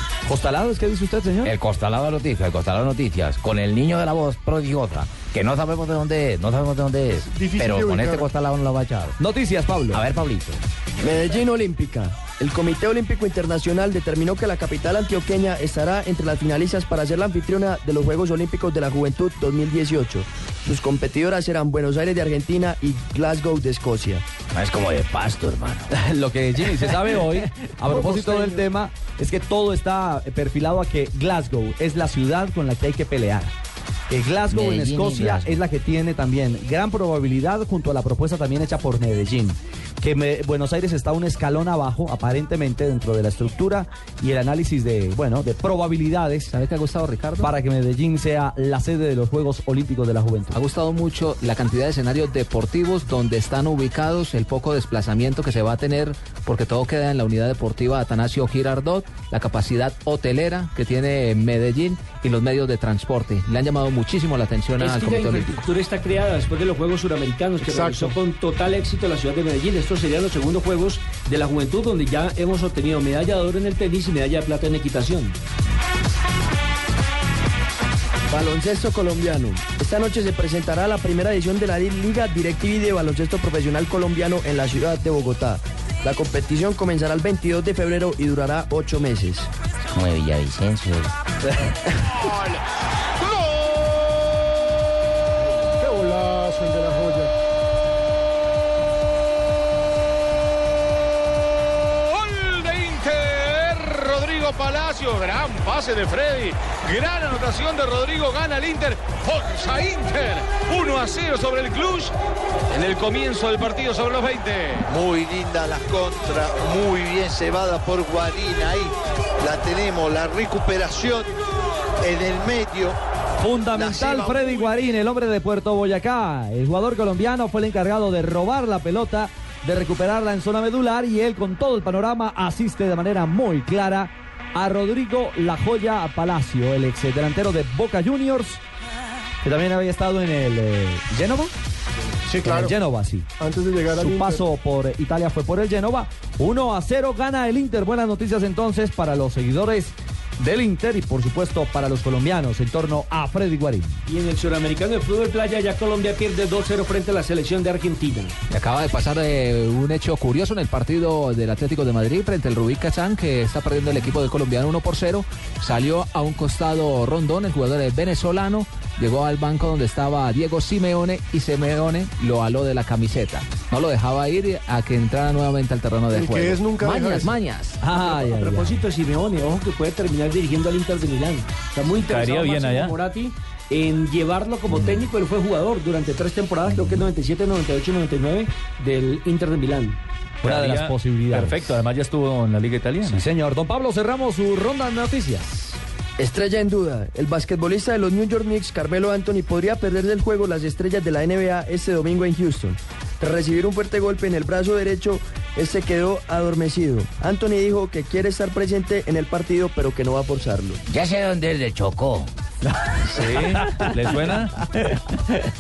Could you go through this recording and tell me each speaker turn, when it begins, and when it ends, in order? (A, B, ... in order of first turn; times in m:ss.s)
0:00.3-0:01.5 A
0:01.4-0:09.1 B
0:07.3-0:08.3 C
0:09.2-0:10.0 A
0:09.9-0:10.6 B
0:11.0-0:24.2 D
0:24.5-0:25.9 B
0:25.9-0:33.5 A
0:26.7-0:27.4 B
0:27.9-0:28.7 C
0:34.1-0:46.5 A
0:34.5-0:35.6 B
0:46.5-0:47.5 E
0:47.4-0:50.6 A
0:50.5-1:05.7 E
1:04.8-1:15.4 F
1:07.6-1:08.2 C
1:18.3-1:29.5 D
1:29.9-1:31.1 B
1:35.8-1:37.3 C
1:41.6-1:52.1 G
1:52.7-1:54.9 G
1:54.9-2:01.4 H
2:02.0-2:03.0 H
2:03.4-2:18.6 A
2:03.8-2:04.6 H
2:19.4-2:21.5 A
2:22.3-2:22.8 C
2:22.4-2:23.3 A
2:23.4-2:24.4 C
2:23.9-2:34.0 A
2:34.1-2:38.3 F
2:38.5-2:57.9 E
2:56.2-2:57.4 C
2:57.8-2:58.8 A
2:57.9-3:10.0 F
3:02.0-3:02.9 I
3:10.4-3:11.6 A
3:10.4-3:13.2 I
3:13.0-3:15.8 A
3:16.2-3:30.8 D
3:30.9-3:32.3 B
3:32.8-3:34.1 A
3:33.2-3:34.5 I
3:34.8-3:35.2 A